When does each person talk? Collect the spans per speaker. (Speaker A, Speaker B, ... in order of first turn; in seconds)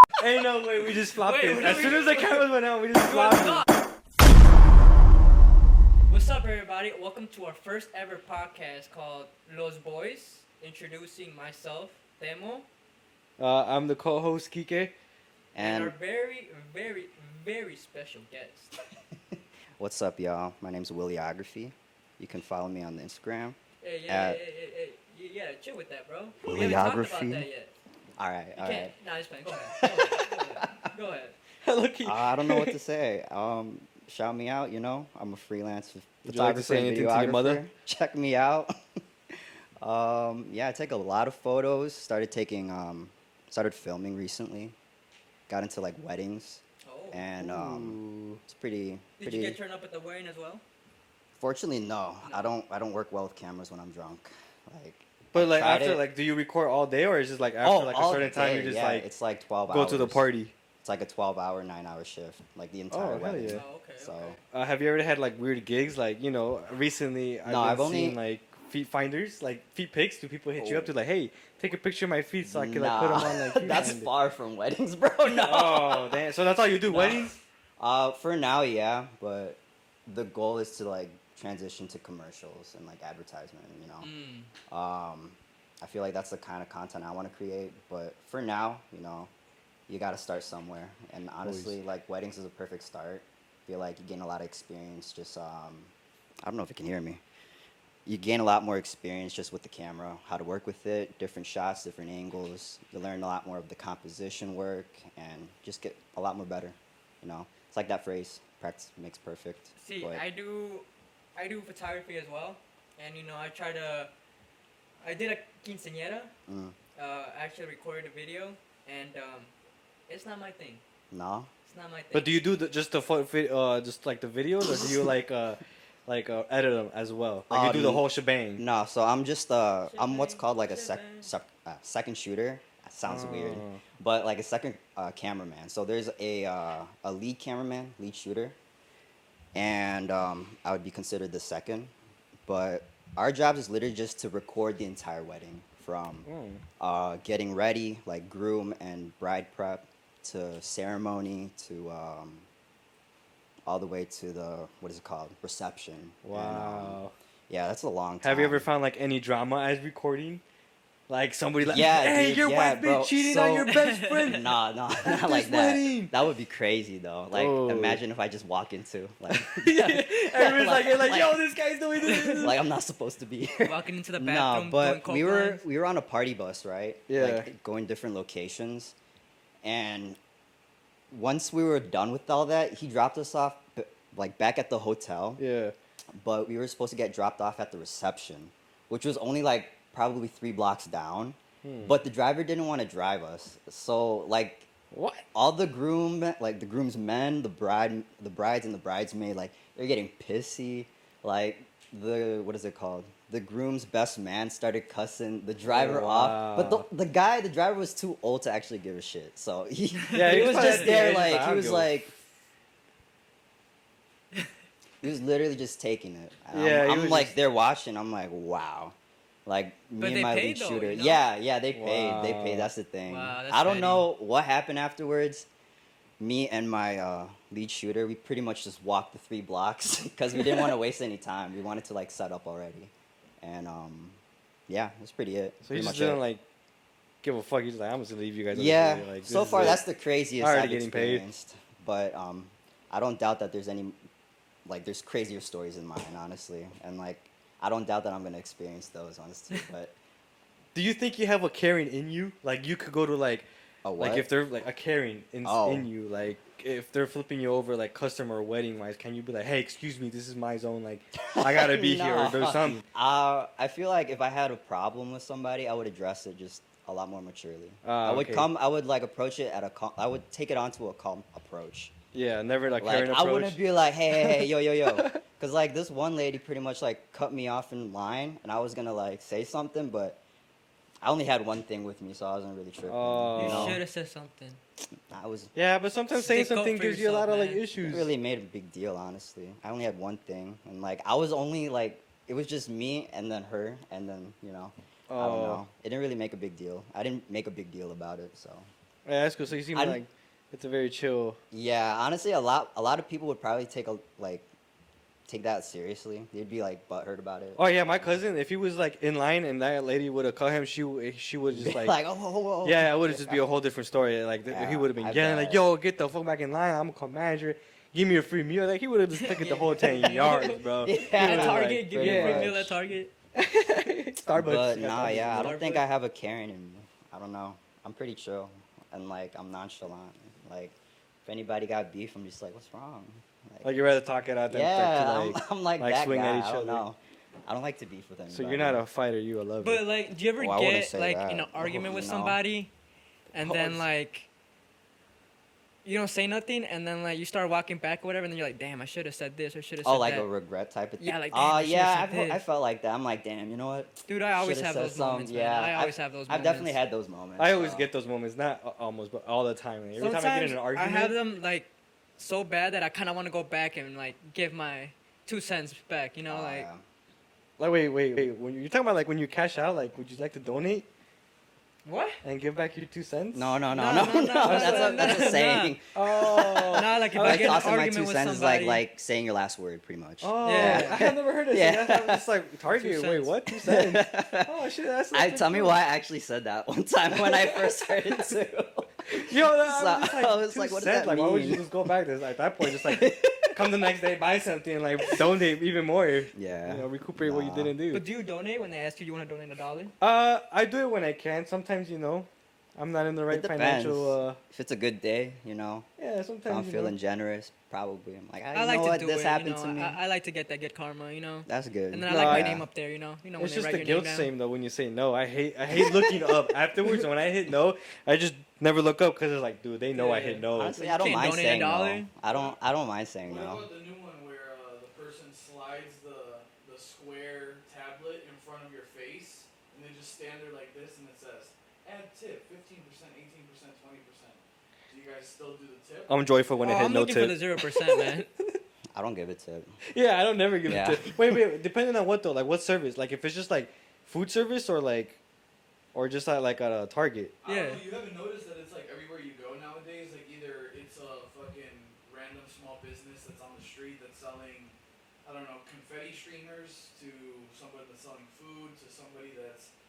Speaker A: 0.2-3.6, 13.4-14.9, 31.6-32.8, 36.2-37.6, 47.4-48.4, 55.3-59.1, 59.7-60.5, 62.9-63.6, 64.5-74.1, 75.2-77.3, 91.4-91.8, 122.1-128.6, 133.0-133.8, 146.2-146.6, 156.2-157.1, 158.2-160.4, 161.1-164.5, 165.0-166.1, 167.3-168.0, 169.3-172.5, 177.1-177.5, 185.4-185.7, 191.6-191.9, 194.9-195.2, 205.7-206.8, 210.1-211.9, 216.5-217.3, 221.7-222.7, 235.6-236.4, 237.2-239.8, 240.4-241.3, 250.7-253.5, 254.0-262.8, 267.8-268.5, 272.1-273.6, 274.2-275.2, 282.9-283.8, 285.5-288.1, 295.1-295.6, 299.1-301.4, 307.6-312.0, 312.6-322.5, 323.4-325.6, 333.6-336.9, 338.3-339.8, 343.4-343.8, 357.4-361.1, 367.6-370.9, 372.2-373.6, 374.4-375.2, 375.9-377.7, 380.2-385.8, 387.1-387.7, 389.1-398.0, 400.0-404.4, 406.0-406.9, 412.1-412.6, 413.4-421.0, 436.1-438.6, 439.9-445.2, 445.9-447.3
Speaker B: 1.1-3.7, 6.1-12.7, 15.6-18.7, 23.8-27.7, 28.6-31.4, 46.8-47.2, 49.2-50.6, 52.2-52.5, 63.5-64.3, 84.0-84.5, 109.8-114.1, 115.0-116.3, 117.0-119.5, 120.1-120.8, 121.7-122.3, 129.8-131.3, 163.7-164.3, 172.1-172.5, 173.6-175.6, 210.2-210.9, 220.0-221.2, 223.1-224.1, 283.4-284.6, 286.1-287.6, 319.2-323.1, 325.2-325.8, 339.6-342.7, 343.3-344.3, 345.8-350.3, 351.0-352.4, 354.1-356.8, 360.0-366.7, 371.8-372.2, 373.7-375.8, 376.3-378.8, 380.4-381.0, 382.7-383.4, 397.9-399.9, 408.5-414.3, 419.9-422.1, 436.6-438.3, 447.4-447.8
Speaker C: 15.5-15.9, 19.8-24.4, 26.4-27.4, 28.2-28.9, 29.5-30.7, 32.0-38.7, 39.3-44.8, 45.5-49.6, 51.3-56.1, 57.6-60.3, 60.8-64.4, 67.4-68.2, 70.6-70.9, 72.4-76.2, 76.8-84.1, 84.7-89.3, 89.9-95.9, 96.4-97.2, 98.0-110.2, 116.5-116.8, 121.1-121.5, 127.5-138.6, 139.5-141.9, 142.4-146.2, 146.8-152.5, 153.6-158.7, 161.7-163.7, 164.2-171.4, 172.1-178.9, 179.6-180.2, 181.1-185.4, 186.2-194.7, 195.3-212.1, 215.0-225.5, 226.2-236.2, 238.5-244.0, 244.7-249.9, 253.8-254.3, 255.4-255.9, 261.2-271.9, 272.8-280.2, 281.0-283.8, 285.1-285.5, 287.8-298.7, 299.7-300.0, 301.5-304.5, 305.3-308.1, 311.6-313.4, 314.5-315.6, 319.9-322.8, 324.3-333.7, 334.5-338.8, 340.4-342.4, 349.8-357.9, 366.3-366.8, 373.3-382.3, 383.6-384.5, 385.1-391.7, 392.6-393.7, 396.3-397.7, 403.3-405.9, 406.5-410.0, 411.4-412.6, 415.7-416.4, 420.5-423.7, 438.9-439.8, 440.6-441.4
Speaker D: 422.2-422.6, 423.2-436.2, 447.4-459.7